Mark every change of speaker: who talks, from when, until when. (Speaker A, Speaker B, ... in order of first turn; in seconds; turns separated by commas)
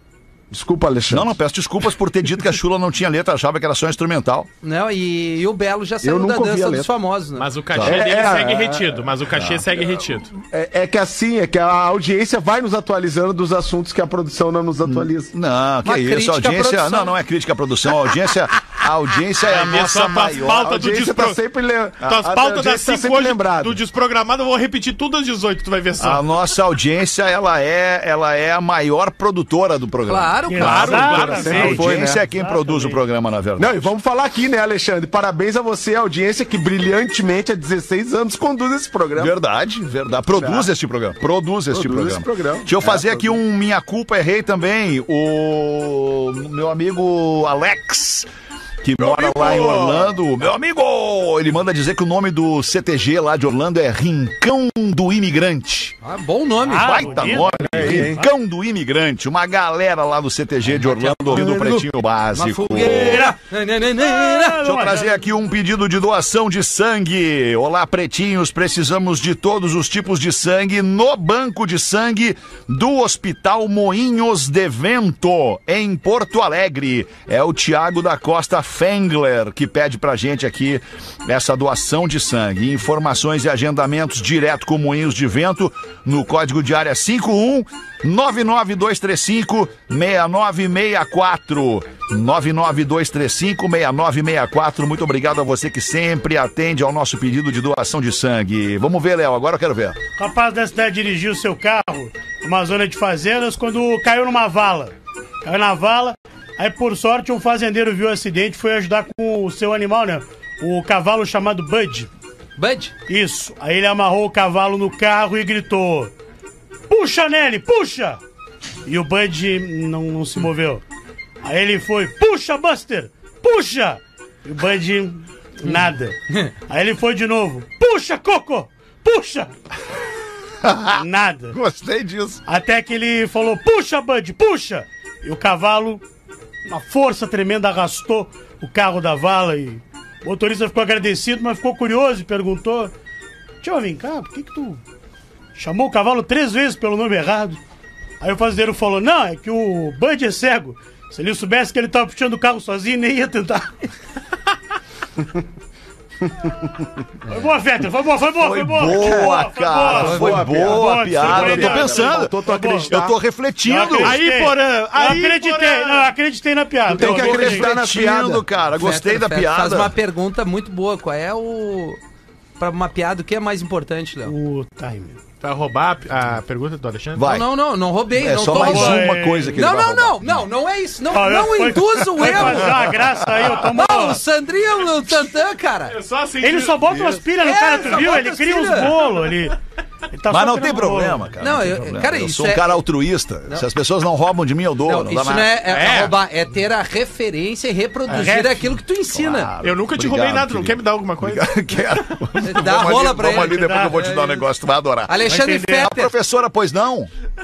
Speaker A: 0.5-1.3, Speaker B: 1.1-4.5, Speaker C: 4.6-7.5, Speaker A: 6.0-6.9, Speaker D: 7.4-10.3, Speaker B: 7.7-8.4, Speaker A: 7.8-9.1, Speaker B: 9.3-9.6, Speaker A: 10.4-15.3, Speaker B: 14.8-20.7, Speaker C: 15.8-17.1, Speaker D: 19.4-21.4, Speaker A: 20.5-23.8, Speaker D: 22.0-26.3, Speaker B: 26.0-33.9, Speaker C: 30.1-31.2, Speaker E: 30.5-33.0, Speaker D: 30.5-31.9, Speaker A: 31.3-32.2, Speaker A: 33.6-39.4, Speaker B: 39.2-48.3, Speaker A: 40.3-40.7, Speaker A: 41.7-43.4, Speaker B: 48.8-56.0, Speaker D: 49.0-50.0, Speaker A: 49.4-50.1, Speaker C: 56.0-57.4, Speaker E: 56.7-58.3, Speaker B: 56.8-63.3, Speaker A: 57.6-58.2, Speaker C: 60.7-64.6, Speaker E: 62.8-63.4, Speaker E: 64.0-65.2, Speaker B: 64.6-100.0, Speaker E: 100.2-112.1, Speaker C: 112.6-112.9, Speaker E: 113.1-116.1, Speaker E: 116.9-118.2, Speaker E: 118.8-120.8, Speaker E: 121.4-126.2, Speaker E: 126.7-129.5, Speaker B: 130.6-132.4, Speaker E: 131.0-131.6, Speaker E: 132.4-136.0, Speaker E: 136.7-142.9, Speaker E: 143.6-144.8, Speaker E: 145.6-147.6, Speaker E: 148.2-153.8, Speaker E: 157.2-163.0, Speaker B: 158.4-164.2, Speaker A: 158.9-159.3, Speaker A: 159.8-163.1, Speaker C: 159.9-160.4, Speaker E: 163.6-167.7, Speaker D: 163.9-166.1, Speaker A: 166.9-168.4, Speaker B: 166.9-169.9, Speaker C: 168.8-172.0, Speaker C: 172.6-174.3, Speaker E: 174.2-175.2, Speaker D: 175.4-177.2, Speaker B: 177.2-177.5, Speaker C: 177.2-182.7, Speaker B: 178.1-180.4, Speaker E: 178.5-179.6, Speaker E: 181.1-184.2, Speaker B: 182.3-183.7, Speaker C: 183.7-185.9, Speaker D: 185.9-187.1, Speaker E: 186.4-189.6, Speaker C: 187.4-189.0, Speaker E: 190.1-191.3, Speaker B: 190.3-195.6, Speaker C: 191.4-192.8, Speaker C: 194.8-199.5, Speaker D: 195.7-196.2, Speaker D: 198.1-198.5, Speaker E: 198.2-198.5, Speaker B: 199.1-207.1, Speaker D: 199.6-201.8, Speaker C: 202.4-204.4, Speaker E: 203.2-204.1, Speaker C: 205.1-206.1, Speaker E: 205.2-205.9